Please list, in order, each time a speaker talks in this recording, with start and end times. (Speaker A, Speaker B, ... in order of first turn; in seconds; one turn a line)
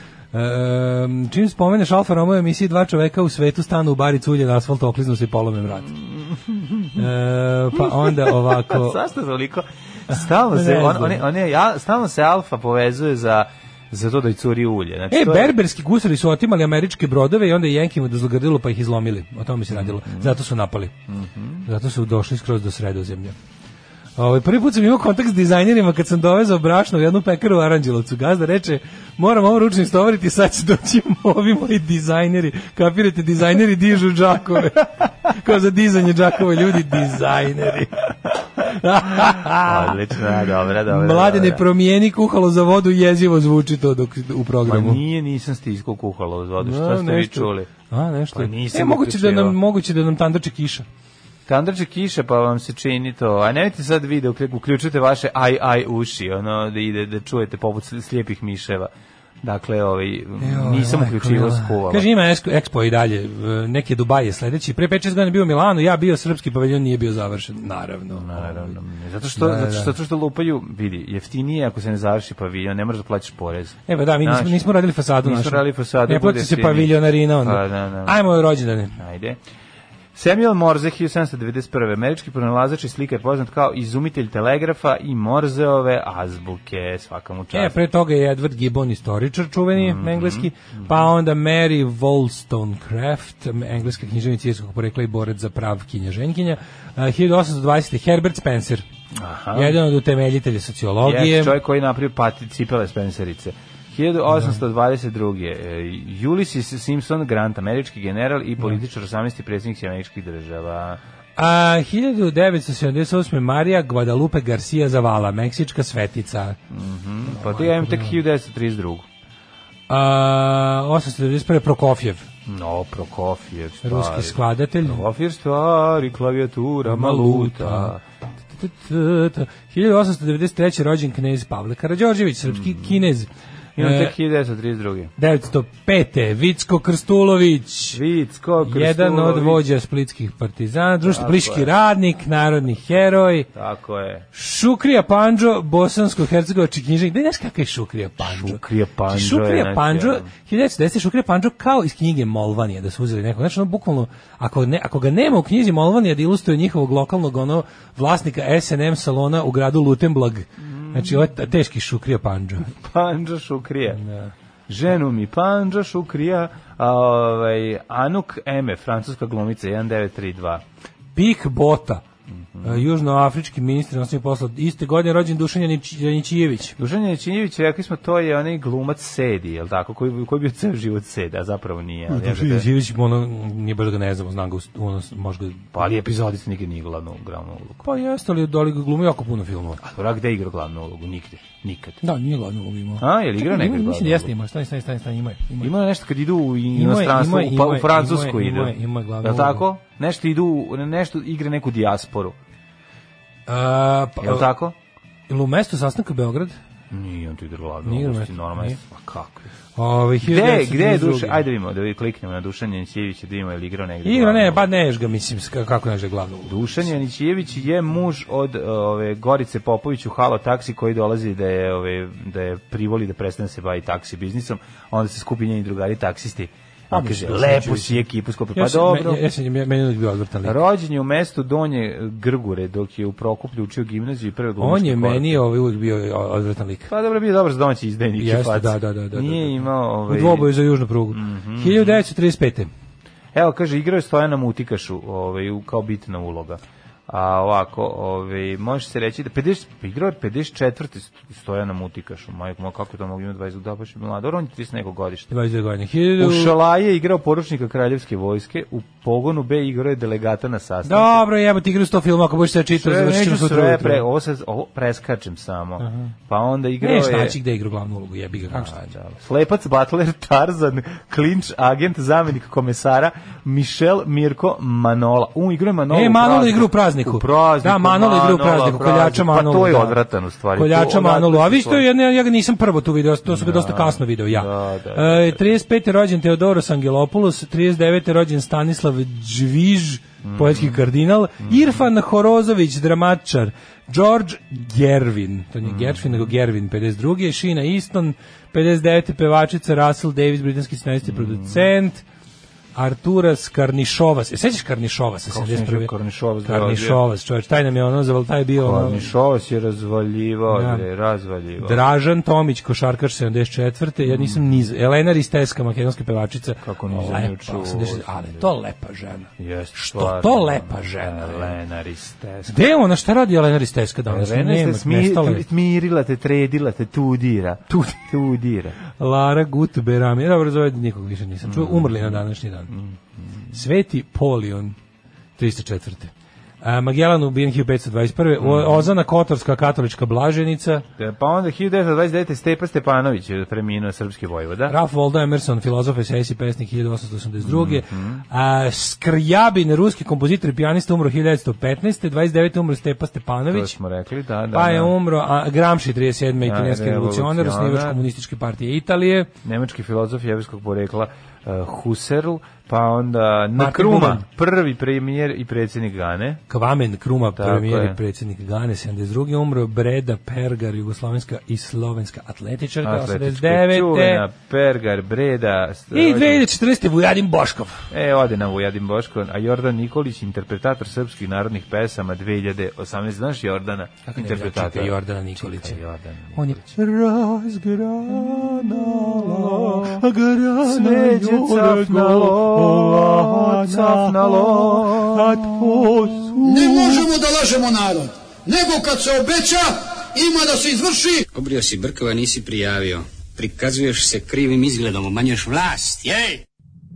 Speaker A: 0.3-5.9
Speaker B: 5.9-7.0
Speaker A: 6.9-9.0
Speaker B: 7.7-15.5
Speaker A: 10.1-11.2
Speaker A: 15.1-20.9
Speaker B: 19.7-20.3
Speaker B: 21.1-21.6
Speaker A: 21.6-23.3
Speaker A: 24.2-40.2
Speaker B: 39.2-41.6
Speaker A: 40.9-45.0
Speaker B: 44.6-47.7
Speaker A: 46.6-50.8
Speaker B: 48.3-49.6
Speaker B: 51.5-58.9
Speaker B: 59.4-62.1
Speaker A: 60.4-68.8
Speaker B: 68.1-74.7
Speaker A: 69.3-70.0
Speaker A: 73.9-79.0
Speaker B: 75.2-78.2
Speaker B: 79.0-79.4
Speaker B: 80.1-87.8
Speaker A: 87.5-98.8
Speaker B: 89.7-91.0
Speaker B: 99.1-99.8
Speaker A: 99.5-101.6
Speaker B: 101.0-111.0
Speaker A: 104.3-104.6
Speaker A: 111.3-116.6
Speaker B: 116.7-119.0
Speaker A: 117.3-118.2
Speaker A: 119.9-122.2
Speaker B: 122.5-128.0
Speaker A: 123.8-125.0
Speaker A: 126.8-128.0
Speaker A: 128.5-134.1
Speaker B: 132.5-133.0
Speaker B: 133.8-135.1
Speaker A: 135.2-138.0
Speaker B: 137.9-139.6
Speaker A: 138.6-143.5
Speaker B: 141.0-141.7
Speaker B: 143.5-144.2
Speaker A: 144.3-162.7
Speaker B: 148.2-150.3
Speaker B: 160.6-161.3
Speaker B: 162.7-164.0
Speaker A: 164.0-164.3
Speaker B: 164.7-170.6
Speaker A: 171.2-172.0
Speaker B: 172.3-172.8
Speaker A: 172.6-176.8
Speaker B: 176.8-182.7
Speaker A: 182.1-185.7
Speaker B: 185.7-187.8
Speaker A: 187.8-189.8
Speaker B: 189.8-192.0
Speaker A: 192.0-195.7
Speaker B: 193.0-194.3
Speaker B: 195.6-202.3
Speaker A: 196.7-199.6
Speaker A: 203.5-204.5
Speaker B: 204.2-204.7
Speaker A: 205.3-206.6
Speaker B: 206.9-209.5
Speaker A: 207.8-208.8
Speaker A: 209.7-211.4
Speaker B: 210.2-214.7
Speaker A: 214.0-216.6
Speaker B: 216.5-229.2
Speaker A: 226.9-228.0
Speaker A: 228.5-230.6
Speaker B: 230.4-235.4
Speaker A: 234.6-236.9
Speaker B: 236.9-240.5
Speaker A: 238.2-242.7
Speaker B: 241.1-242.0
Speaker B: 243.3-255.3
Speaker A: 255.3-256.6
Speaker B: 256.2-261.2
Speaker A: 260.8-264.0
Speaker B: 262.7-267.4
Speaker A: 265.8-266.1
Speaker A: 266.8-268.9
Speaker B: 268.5-281.9
Speaker A: 275.9-280.0
Speaker A: 280.5-302.0
Speaker B: 283.2-285.6
Speaker B: 290.2-290.8
Speaker B: 291.4-291.9
Speaker B: 295.6-296.3
Speaker B: 301.1-301.7
Speaker A: 302.7-305.9
Speaker B: 305.3-307.0
Speaker A: 306.4-309.1
Speaker B: 308.6-311.8
Speaker A: 310.5-310.8
Speaker A: 311.6-321.6
Speaker B: 314.0-314.6
Speaker B: 316.6-318.5
Speaker B: 319.4-322.6
Speaker A: 322.4-325.4
Speaker B: 324.1-328.8
Speaker A: 328.9-332.7
Speaker B: 331.4-333.5
Speaker A: 333.5-334.7
Speaker A: 335.4-340.8
Speaker B: 338.4-338.9
Speaker B: 341.0-344.8
Speaker A: 344.7-353.7
Speaker B: 347.4-348.2
Speaker B: 353.5-354.9
Speaker A: 354.5-359.3
Speaker B: 356.4-358.0
Speaker B: 359.4-366.4
Speaker A: 363.6-364.2
Speaker A: 366.5-374.2
Speaker B: 367.3-368.0
Speaker B: 372.8-376.4
Speaker A: 375.9-377.9
Speaker B: 377.9-386.7
Speaker A: 384.1-385.8
Speaker A: 386.3-397.1
Speaker B: 388.1-390.0
Speaker B: 390.6-396.3
Speaker C: 396.4-401.2
Speaker D: 401.3-406.4